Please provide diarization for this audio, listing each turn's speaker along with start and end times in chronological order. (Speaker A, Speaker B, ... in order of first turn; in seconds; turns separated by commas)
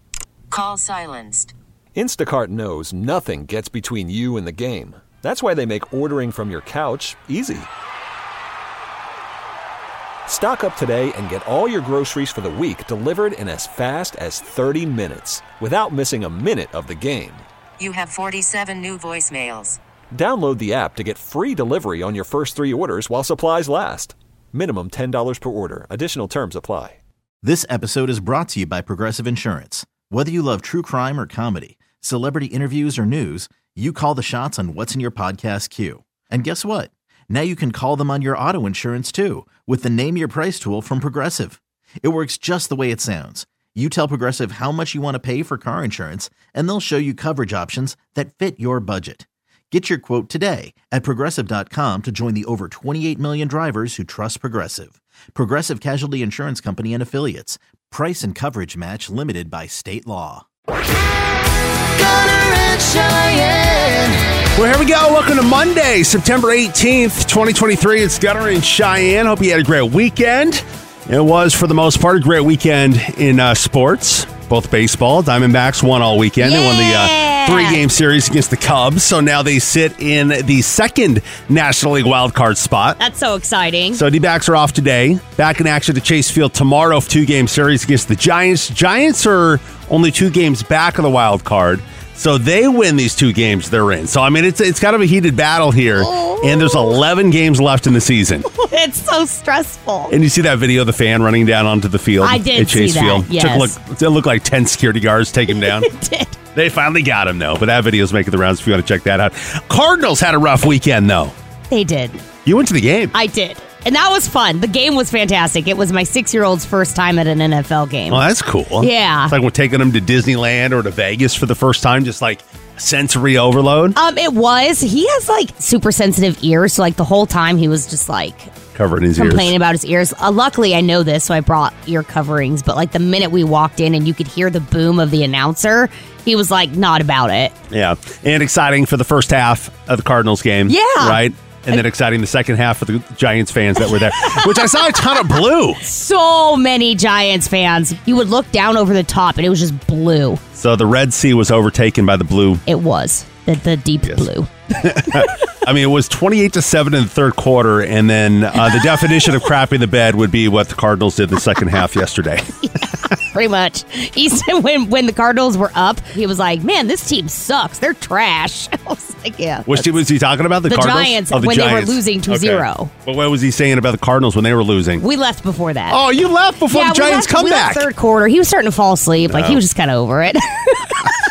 Speaker A: 0.5-1.5, Speaker B: 1.9-7.7, Speaker B: 10.2-17.4, Speaker A: 17.8-19.8, Speaker B: 20.1-27.0, Speaker C: 27.4-60.5, Speaker D: 62.0-62.8, Speaker D: 64.5-83.0, Speaker E: 76.4-77.8, Speaker E: 83.0-84.0, Speaker D: 83.9-98.5, Speaker E: 96.0-97.0, Speaker E: 98.5-100.1, Speaker D: 100.1-105.9, Speaker E: 102.2-103.7, Speaker E: 105.5-106.4, Speaker D: 106.5-111.3, Speaker E: 111.7-112.2, Speaker D: 112.4-113.1, Speaker E: 113.1-118.2, Speaker D: 118.1-124.0, Speaker E: 118.8-119.3, Speaker E: 124.0-128.5, Speaker D: 128.7-129.5, Speaker E: 129.2-137.5, Speaker D: 137.7-145.8, Speaker E: 140.7-141.2, Speaker E: 145.8-150.4, Speaker D: 150.6-152.6, Speaker E: 152.7-155.3, Speaker D: 154.8-162.6, Speaker E: 162.8-169.9, Speaker D: 169.7-175.0, Speaker E: 170.7-172.9, Speaker E: 175.0-176.0, Speaker D: 175.9-177.9, Speaker E: 176.7-181.1, Speaker D: 179.3-179.6